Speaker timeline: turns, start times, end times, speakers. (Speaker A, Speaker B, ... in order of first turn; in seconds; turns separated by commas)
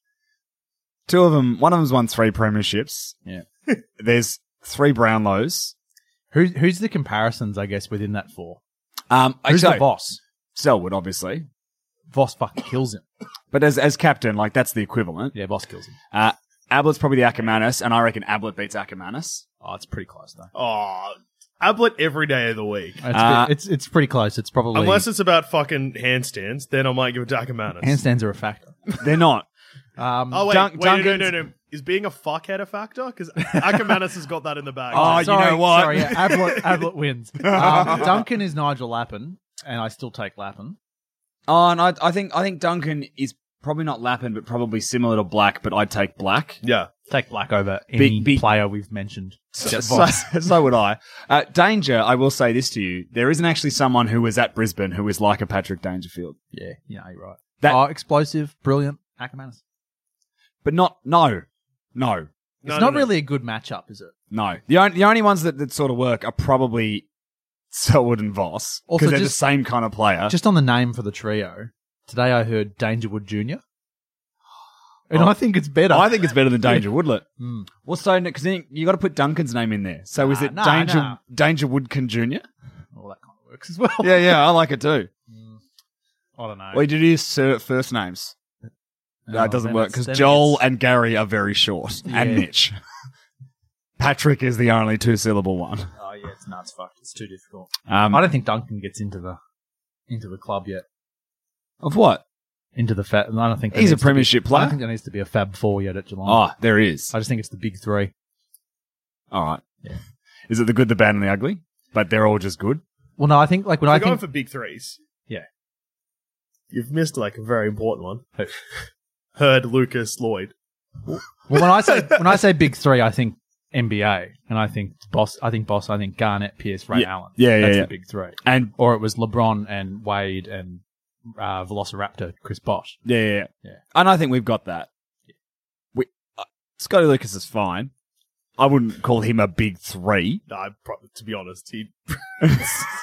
Speaker A: 1.1-3.2, Speaker A: 4.0-5.7, Speaker B: 6.3-8.6, Speaker A: 9.1-9.9, Speaker B: 9.5-10.2, Speaker A: 10.5-11.4, Speaker B: 12.1-13.0, Speaker A: 13.5-15.3, Speaker B: 15.3-15.9, Speaker A: 16.1-19.4, Speaker B: 19.6-20.5, Speaker C: 20.5-23.0, Speaker B: 23.0-25.1, Speaker A: 23.1-23.5, Speaker C: 24.7-28.0, Speaker B: 27.8-28.8, Speaker A: 29.0-29.4, Speaker B: 30.0-30.5, Speaker C: 30.3-35.3, Speaker A: 30.5-31.4, Speaker A: 34.9-36.3, Speaker B: 34.9-40.8, Speaker A: 37.4-38.2, Speaker A: 41.5-46.6, Speaker C: 46.6-46.9, Speaker B: 47.1-50.2, Speaker A: 48.0-48.5, Speaker A: 49.5-56.4, Speaker B: 56.5-59.6, Speaker A: 60.6-62.3, Speaker C: 62.6-63.1, Speaker B: 62.6-64.1, Speaker A: 64.3-67.0, Speaker A: 67.7-70.3, Speaker B: 68.9-69.4, Speaker B: 70.3-73.6, Speaker B: 75.1-76.8, Speaker A: 75.9-77.2, Speaker B: 77.4-77.7, Speaker A: 77.8-82.4, Speaker B: 80.2-81.2, Speaker B: 82.9-84.5, Speaker A: 84.0-85.1, Speaker B: 85.3-85.6, Speaker B: 86.4-86.8, Speaker A: 86.7-88.3, Speaker B: 89.3-90.6, Speaker A: 89.3-92.8, Speaker B: 92.1-92.5, Speaker A: 94.0-95.9, Speaker B: 96.0-99.4, Speaker A: 97.9-98.2, Speaker B: 100.1-100.8, Speaker A: 101.8-102.2, Speaker B: 102.8-106.4, Speaker A: 103.7-104.8, Speaker A: 106.2-107.1, Speaker B: 107.1-108.1, Speaker A: 109.3-109.7, Speaker A: 110.5-112.8, Speaker B: 113.2-114.2, Speaker C: 113.8-115.0, Speaker C: 116.7-118.3, Speaker C: 119.3-120.5, Speaker B: 121.1-130.8, Speaker A: 126.9-127.9, Speaker A: 128.4-128.7, Speaker B: 131.4-133.0, Speaker A: 133.0-134.9, Speaker A: 135.9-137.9, Speaker A: 138.6-140.4, Speaker C: 140.5-142.2, Speaker A: 142.4-142.8